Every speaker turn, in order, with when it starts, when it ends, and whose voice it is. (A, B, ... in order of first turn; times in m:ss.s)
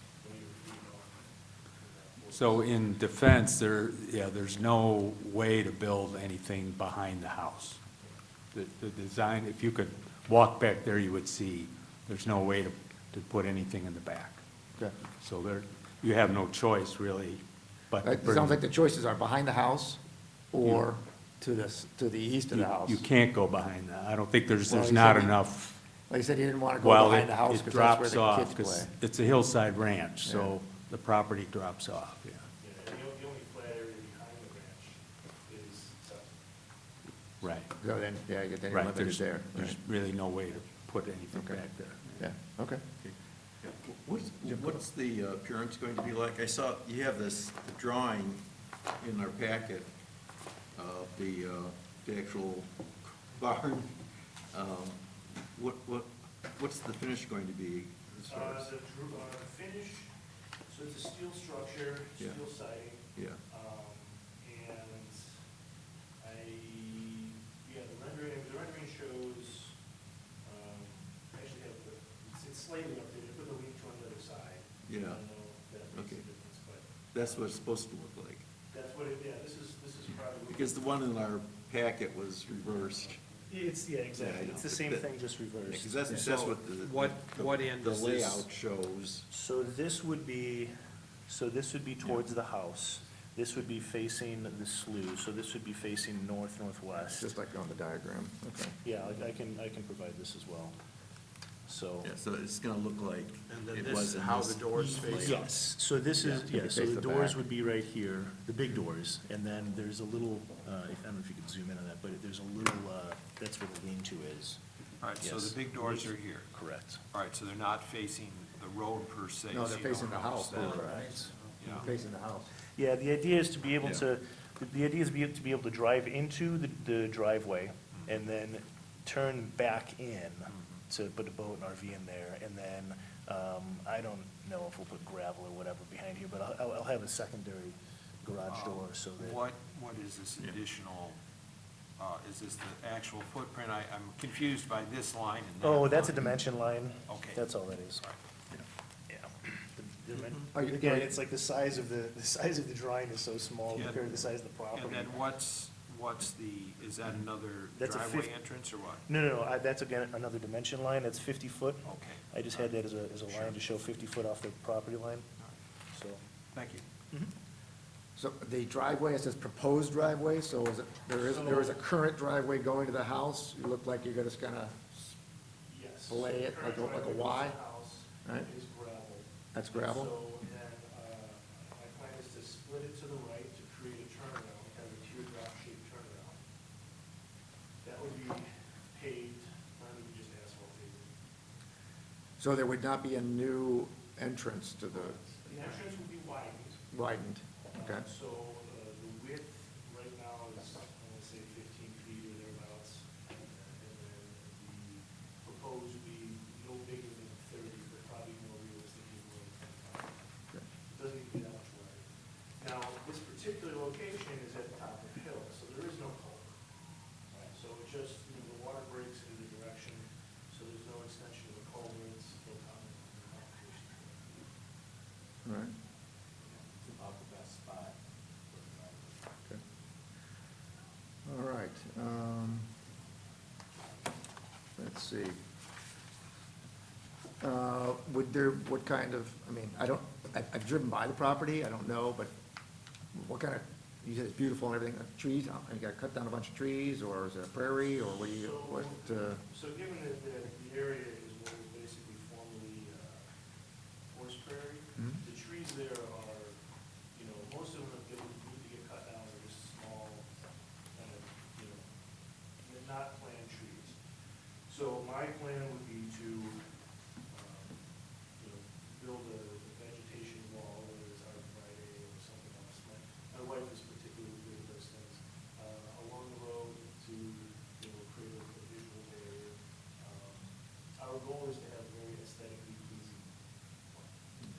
0:00.2-0:02.7 A
0:02.3-0:07.8 B
0:08.5-0:14.4 B
0:15.2-0:18.6 B
0:18.0-0:20.0 C
0:20.5-0:23.0 C
0:22.5-0:25.8 B
0:24.7-0:25.4 C
0:26.1-0:28.9 C
0:26.8-0:32.4 B
0:30.2-0:30.6 C
0:32.6-0:36.4 A
0:37.4-0:37.7 B
0:37.8-0:39.8 C
0:38.7-0:42.3 B
0:41.3-0:41.6 C
0:42.2-0:42.8 C
0:43.0-0:48.4 D
0:44.5-0:44.8 C
0:49.0-0:49.9 D
0:50.7-0:53.9 D
0:54.5-0:55.0 D
0:55.5-0:58.7 D
0:58.3-1:00.1 A
1:00.7-1:05.3 A
1:03.2-1:03.4 D
1:06.2-1:09.8 A
1:10.4-1:17.6 A
1:14.9-1:15.2 D
1:15.9-1:16.2 D
1:17.1-1:18.4 D
1:18.7-1:21.0 A
1:20.5-1:23.2 D
1:23.3-1:26.2 A
1:24.1-1:29.3 D
1:26.1-1:28.4 E
1:29.3-1:30.7 A
1:31.3-1:37.3 A
1:37.1-1:38.8 C
1:38.8-1:40.7 A
1:41.7-1:42.1 A
1:42.0-1:45.5 D
1:43.5-1:54.6 A
1:46.2-1:47.4 C
1:55.0-1:56.5 E
1:55.2-1:57.0 A
1:57.1-2:01.9 E
1:59.5-2:02.5 C
2:00.6-2:01.3 A
2:02.8-2:19.4 A
2:18.5-2:21.2 E
2:22.0-2:26.2 E
2:25.6-2:28.0 A
2:27.1-2:27.4 E
2:29.1-2:35.3 A
2:30.5-2:31.1 C
2:33.7-2:34.1 E
2:34.7-2:39.0 E
2:37.8-2:45.2 A
2:41.8-2:42.8 E
2:43.3-2:43.6 E
2:45.9-2:46.2 A
2:46.5-2:46.8 E
2:48.2-2:55.1 C
2:51.2-2:51.8 A
2:55.7-3:06.4 A
2:56.1-2:57.6 C
2:59.5-3:00.1 C
3:07.8-3:11.1 A
3:12.4-3:15.2 C
3:15.2-3:16.8 A
3:16.9-3:18.0 C
3:17.8-3:36.6 A
3:37.4-3:44.4 A
3:45.4-3:45.7 C
3:46.8-3:48.0 B
3:48.5-3:49.1 B
3:51.2-3:52.7 C
3:54.8-3:55.4 C
3:57.4-4:02.3 C
4:03.1-4:09.4 C
4:08.4-4:13.3 A
4:14.1-4:16.6 A
4:17.1-4:20.3 A
4:20.9-4:21.9 A
4:22.6-4:24.0 A
4:24.7-4:26.6 A
4:27.3-4:27.8 A
4:28.4-4:43.3 A